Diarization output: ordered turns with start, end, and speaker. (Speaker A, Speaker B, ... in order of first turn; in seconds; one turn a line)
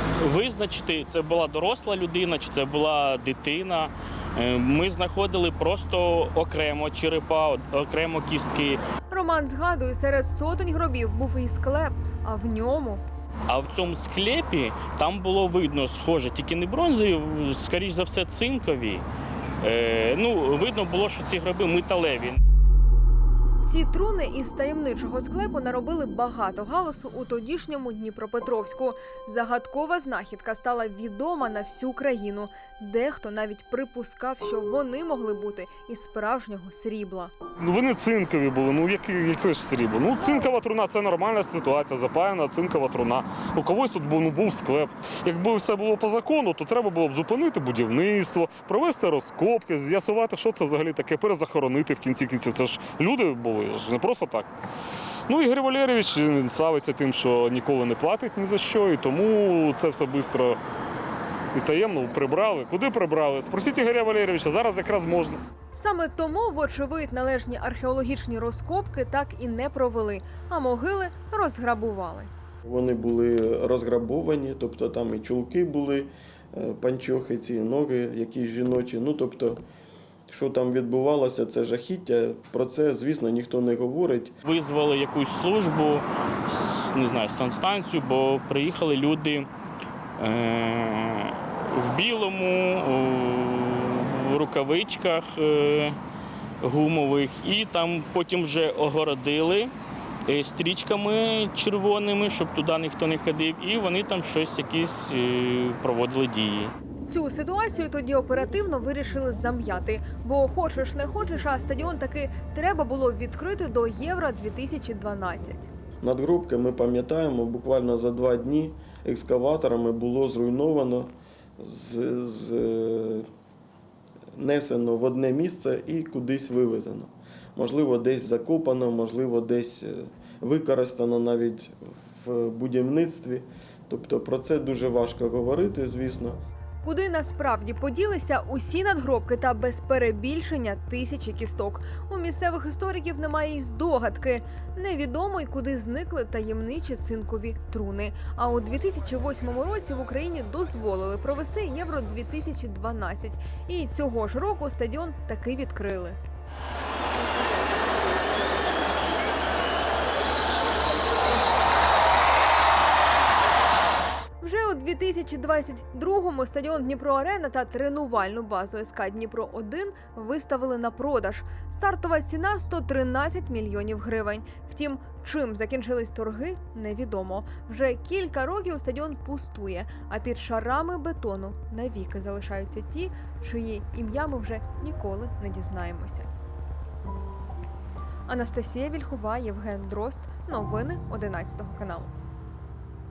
Speaker A: 0.2-8.8
Speaker B: 9.1-13.0
Speaker A: 13.5-19.0
Speaker A: 19.6-22.4
Speaker B: 23.6-37.3
Speaker C: 37.6-54.5
Speaker C: 55.3-60.6
Speaker C: 61.5-65.4
Speaker B: 65.7-72.3
Speaker D: 72.6-79.6
Speaker D: 80.3-84.3
Speaker A: 84.4-89.5
Speaker A: 90.2-96.0
Speaker A: 96.6-99.7
Speaker A: 100.3-106.7
Speaker B: 107.0-115.7
Speaker D: 116.0-123.3
Speaker D: 124.3-136.4
Speaker B: 136.8-156.2
Speaker B: 164.4-186.3
Speaker B: 188.3-192.1